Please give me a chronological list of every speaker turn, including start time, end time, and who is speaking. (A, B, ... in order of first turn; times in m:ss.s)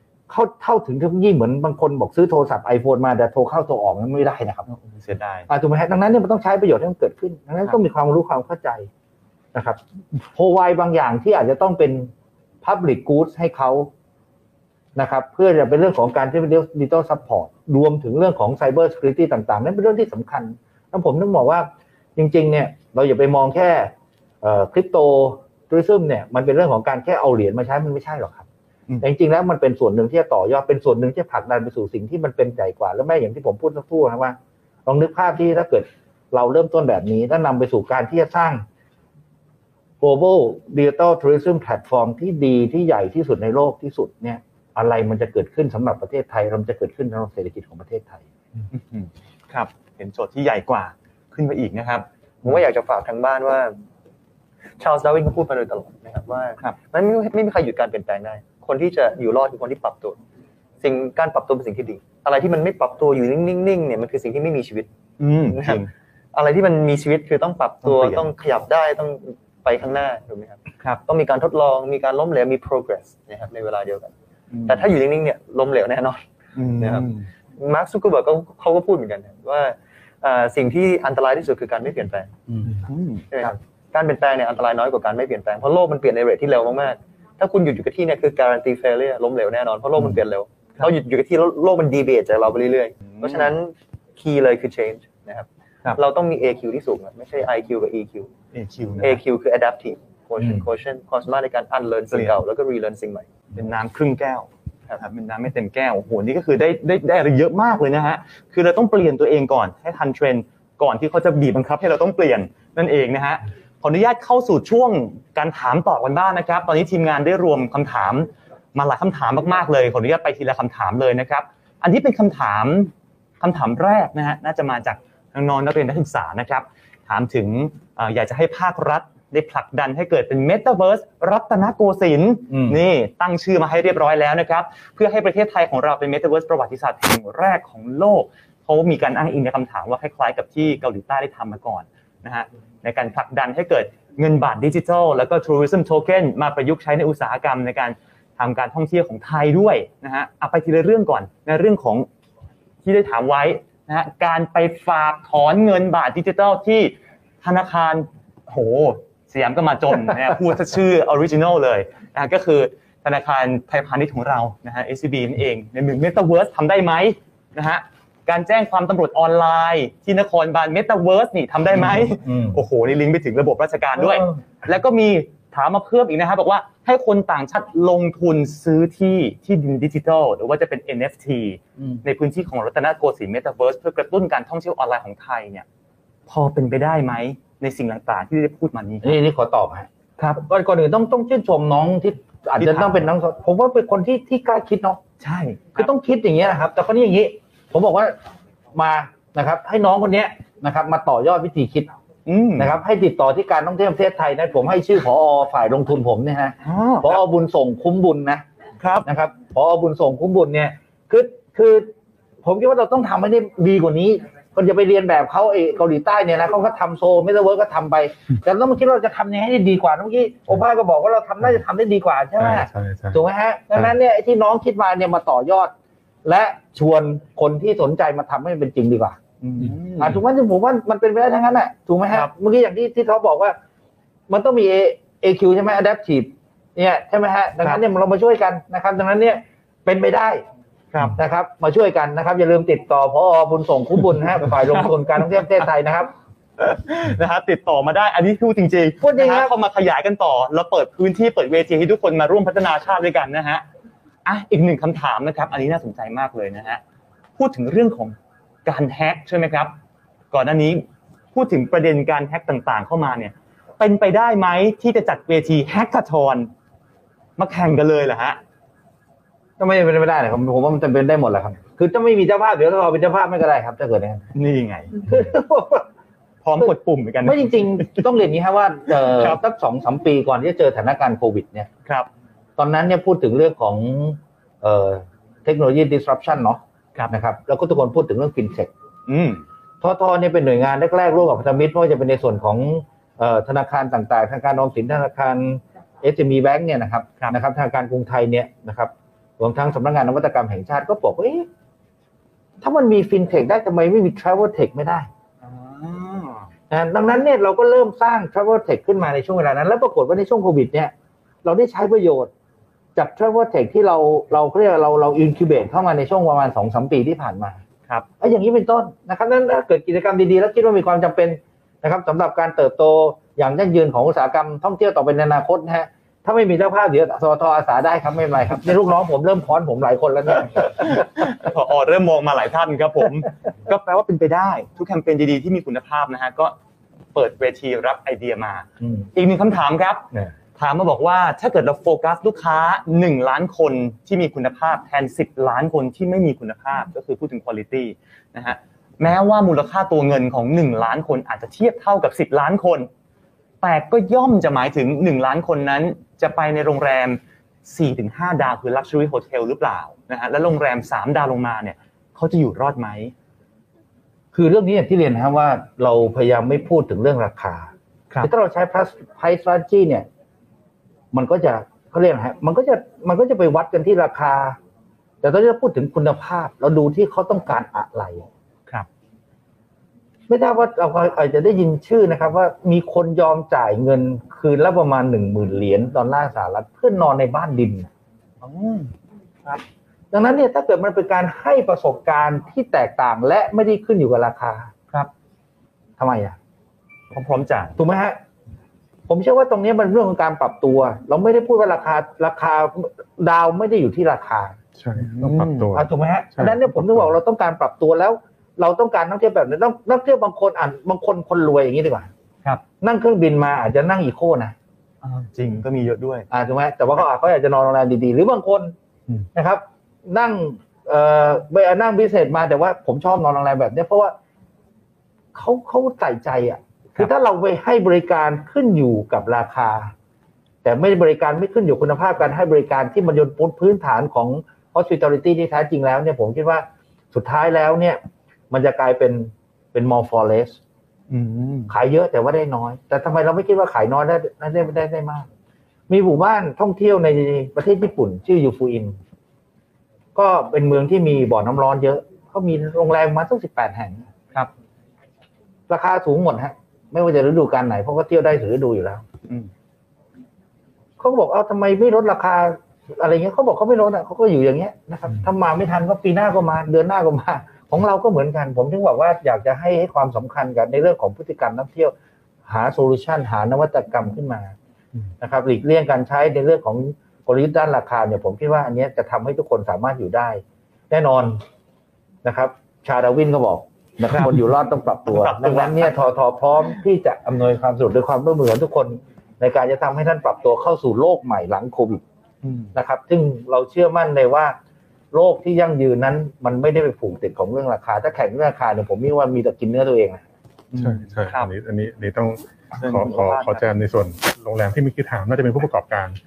0:00.3-0:04.6 A
0:04.7-0:05.5 B
0:05.5-0:08.9 A
0:09.5-0:13.9 A
0:15.0-0:28.4 A
0:29.0-0:38.6 A
0:40.0-0:48.2 A
0:48.7-0:52.0 B
0:52.4-0:53.8 C
0:54.8-1:00.2 C
1:00.8-1:04.9 C
1:05.2-1:05.9 B
1:05.5-1:14.1 C
1:07.8-1:08.2 B
1:14.5-1:14.8 B
1:14.6-1:16.2 C
1:16.6-1:17.3 B
1:16.8-1:22.3 C
1:22.5-1:22.8 A
1:22.8-1:23.5 B
1:23.3-1:38.3 C
1:33.1-1:33.5 B
1:38.5-1:39.2 B
1:39.0-1:43.3 C
1:43.5-2:32.1 B
2:12.5-2:12.8 A
2:32.8-3:05.6 B
2:51.8-2:52.6 A
2:54.0-2:54.3 A
3:06.3-3:09.2 B
3:09.0-3:15.0 A
3:12.6-3:13.0 B
3:15.2-3:15.9 B
3:15.8-3:18.2 A
3:18.7-3:21.9 A
3:22.2-3:22.8 B
3:22.6-3:28.4 A
3:26.6-3:27.2 B
3:28.8-3:29.1 B
3:29.0-3:31.9 A
3:32.4-3:45.7 A
3:42.4-3:43.2 D
3:46.2-3:53.6 A
3:49.5-3:50.2 B
3:54.3-4:00.4 A
4:00.9-4:01.2 B
4:01.1-4:06.1 A
4:06.6-4:13.6 B
4:09.0-4:09.5 A
4:14.2-4:16.8 B
4:17.4-4:19.7 B
4:20.3-4:26.5 B
4:27.4-4:28.4 B
4:29.6-4:34.3 A
4:34.3-4:35.1 B
4:35.0-4:35.9 A
4:36.4-4:38.0 B
4:37.2-4:41.7 A
4:39.0-4:39.4 B
4:42.6-4:48.7 A
4:49.1-4:49.4 B
4:49.8-5:01.5 A
5:02.6-5:05.1 A
5:05.4-5:06.5 B
5:06.7-5:10.9 A
5:11.4-5:12.3 A
5:13.0-5:17.6 A
5:18.2-5:31.2 A
5:30.6-5:36.5 B
5:37.1-5:52.9 B
5:38.8-5:39.1 A
5:53.6-6:03.1 B
6:04.3-6:07.7 A
6:08.2-6:10.0 A
6:11.1-6:14.6 A
6:15.2-6:18.3 A
6:20.3-6:27.9 A
6:28.4-6:28.9 B
6:30.1-6:34.7 A
6:36.0-6:36.4 A
6:37.1-6:37.8 B
6:37.8-6:38.2 A
6:39.1-6:44.6 A
6:44.8-6:47.1 D
6:45.0-6:45.8 B
6:45.7-6:52.1 A
6:52.8-6:54.5 A
6:55.0-6:56.3 B
6:56.3-6:58.7 A
6:59.3-7:04.1 A
7:05.3-7:09.9 A
7:10.6-7:18.0 A
7:18.5-7:20.6 A
7:21.1-7:21.7 B
7:21.7-7:25.3 A
7:25.9-7:29.0 A
7:30.1-7:34.1 A
7:35.7-7:39.0 A
7:41.0-7:51.9 A
7:52.4-7:54.5 A
7:55.2-8:01.4 A
8:02.2-8:12.0 A
8:05.1-8:05.9 B
8:12.4-8:12.7 B
8:12.7-8:14.6 A
8:15.1-8:20.2 A
8:20.7-8:21.5 B
8:20.8-8:26.2 D
8:22.8-8:23.6 B